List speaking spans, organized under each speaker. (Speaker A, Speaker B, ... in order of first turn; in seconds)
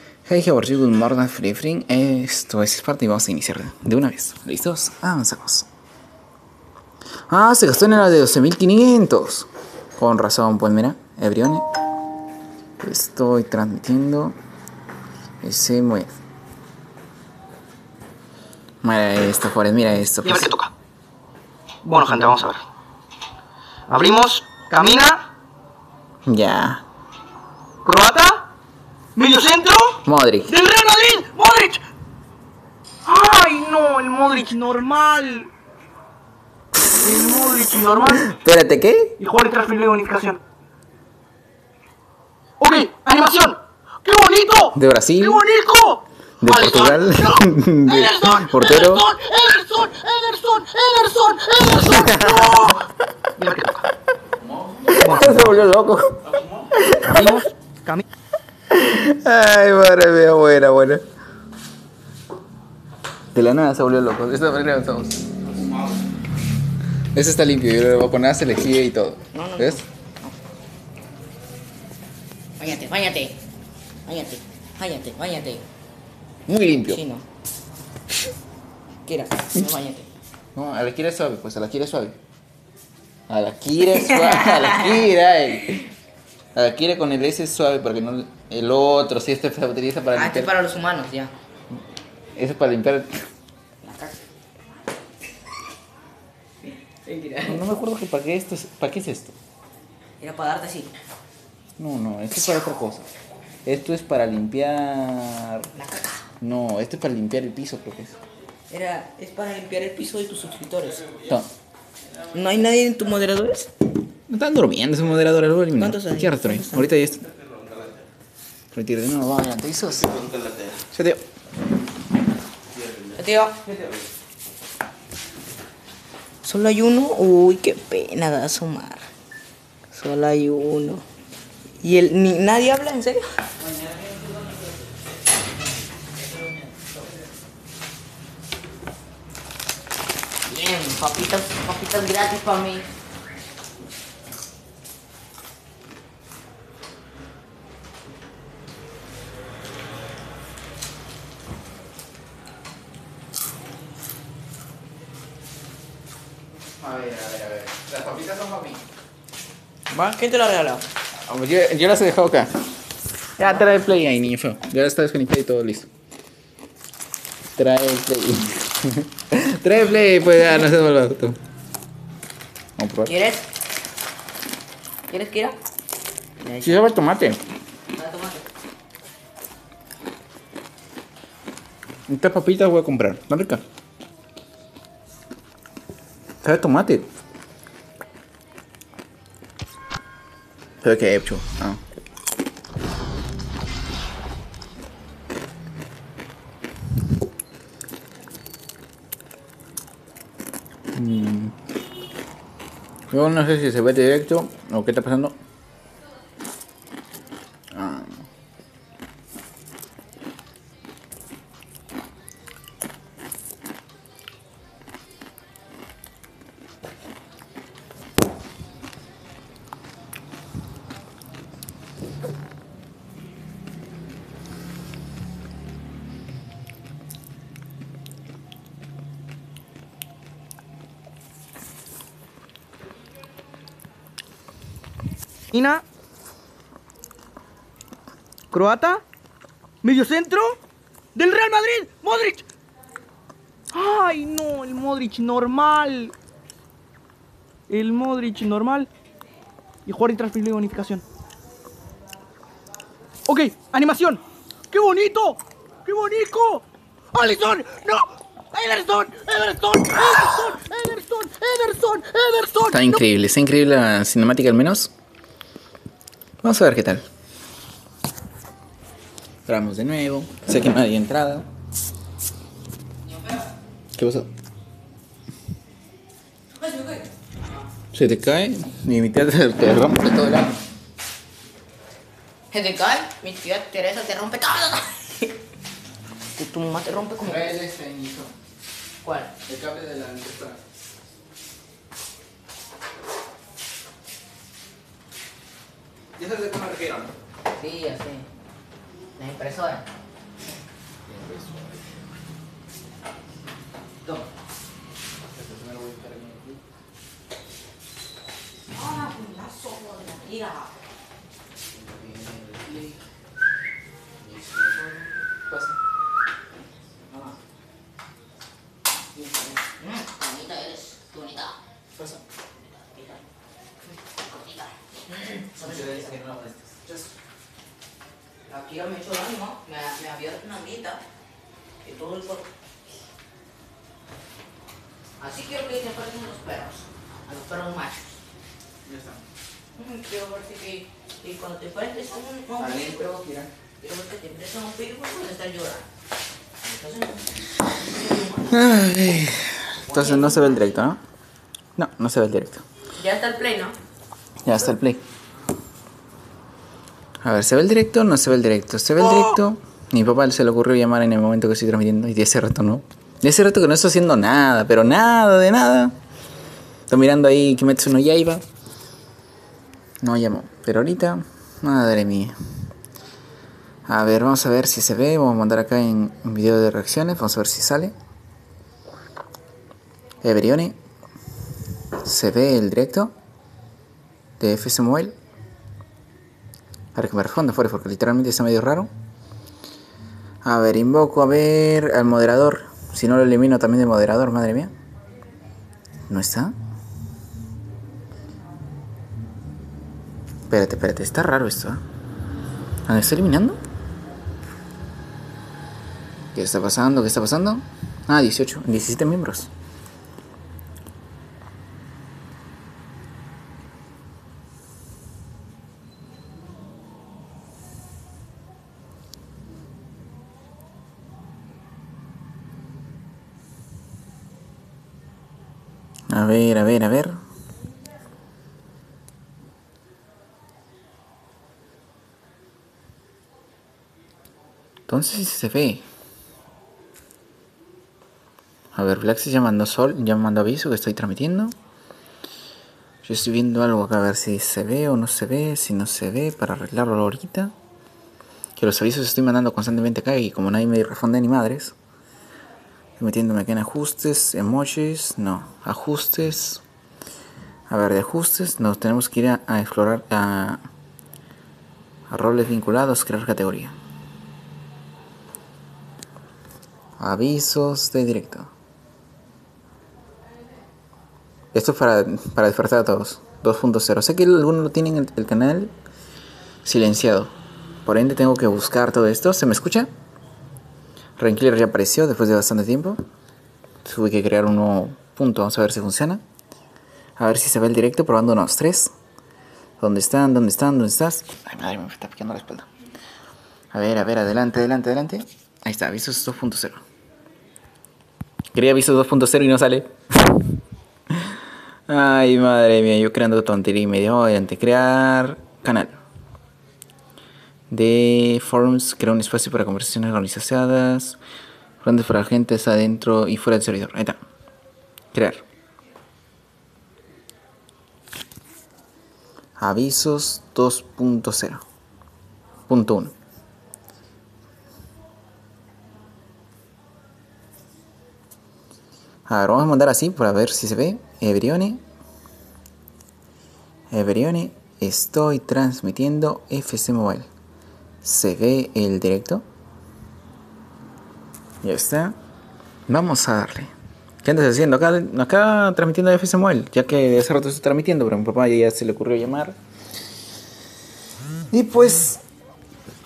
Speaker A: 0.2-5.7, 7.3-11.6, 12.8-14.3, 15.4-16.1, 18.8-20.5, 26.2-26.8, 30.0-30.5, 38.3-39.1, 44.7-45.4, 46.4-49.0, 51.9-52.7, 54.7-57.3, 58.7-61.0, 63.3-65.3, 67.1-69.8, 76.5-77.0, 80.5-82.2, 83.3-85.9, 86.5-90.5, 92.3-93.2, 97.5-99.3, 101.8-103.1, 103.6-105.7, 106.4-108.2, 114.3-117.2, 118.7-120.3, 120.9-121.2, 156.8-158.8, 161.3-162.5, 163.4-165.9, 167.6-171.4, 172.8-173.1, 176.6-177.4, 182.1-183.6, 186.4-187.1, 190.8-191.8, 200.9-201.5, 203.1-205.4, 207.7-208.2, 262.7-264.9, 266.4-267.0, 269.4-271.5, 274.0-274.3, 277.9-280.6, 287.2-288.3, 289.5-290.6, 296.2-297.1, 301.1-301.8, 305.3-306.6, 311.7-312.9, 314.2-315.0, 315.5-315.7, 325.6-327.1, 338.8-339.2, 342.6-343.5, 348.5-351.0, 351.8-352.6, 354.4-355.0, 357.2-365.9, 366.9-368.4, 370.0-372.3, 373.9-377.9, 380.2-380.8, 382.0-383.1, 384.4-385.1, 386.9-388.9, 390.4-394.7, 396.1-396.5, 400.5-401.8, 402.9-403.6, 406.3-409.5, 426.1-427.2, 434.9-435.8, 438.7-441.5, 443.0-447.5, 448.6-451.7, 453.0-456.6, 457.7-460.7, 462.1-463.7, 467.0-468.5, 471.5-475.7, 476.6-479.9, 481.2-483.0, 483.8-486.2, 487.2-488.9, 489.8-492.7, 493.7-496.8, 498.5-499.9, 501.9-506.0, 507.7-511.2, 511.8-514.2, 515.1-515.4, 519.6-521.6, 522.7-523.1, 529.2-531.8, 533.9-537.3, 538.0-539.4, 541.6-542.1, 542.9-543.7, 544.2-549.6, 551.5-552.2
Speaker B: 20.2-20.7, 21.8-22.6, 23.9-25.2, 27.8-28.4, 29.1-31.8, 33.0-35.5, 36.9-38.3, 39.2-40.4, 42.6-52.8, 53.4-53.8, 55.0-55.4, 57.0-58.0, 235.5-235.8, 238.5-239.0, 239.8-240.6, 241.1-242.4, 243.7-246.1, 247.7-248.9, 249.8-251.0, 253.3-263.0
Speaker C: 69.3-70.3, 72.6-73.4, 74.0-75.7, 76.8-77.2, 79.0-80.1, 83.9-85.0, 90.1-91.3, 93.8-94.2, 96.6-97.6, 100.2-100.9, 105.7-106.3, 108.7-111.1, 112.3-113.7, 115.8-116.9, 123.1-123.6, 126.4-129.1, 129.9-131.1, 131.8-133.4, 140.4-142.9, 159.9-160.9, 173.0-173.5, 175.1-175.6, 176.4-176.8, 177.9-178.5, 273.0-273.5, 276.5-277.7, 282.5-285.4, 286.4-287.5, 289.0-289.3, 297.6-298.3, 299.2-299.9, 308.7-310.8, 319.1-321.6, 322.9-323.2, 323.9-326.1, 328.5-331.0, 331.8-332.5, 335.2-338.1, 339.8-343.2, 343.8-345.9, 346.6-348.6, 349.9-350.8, 352.9-353.8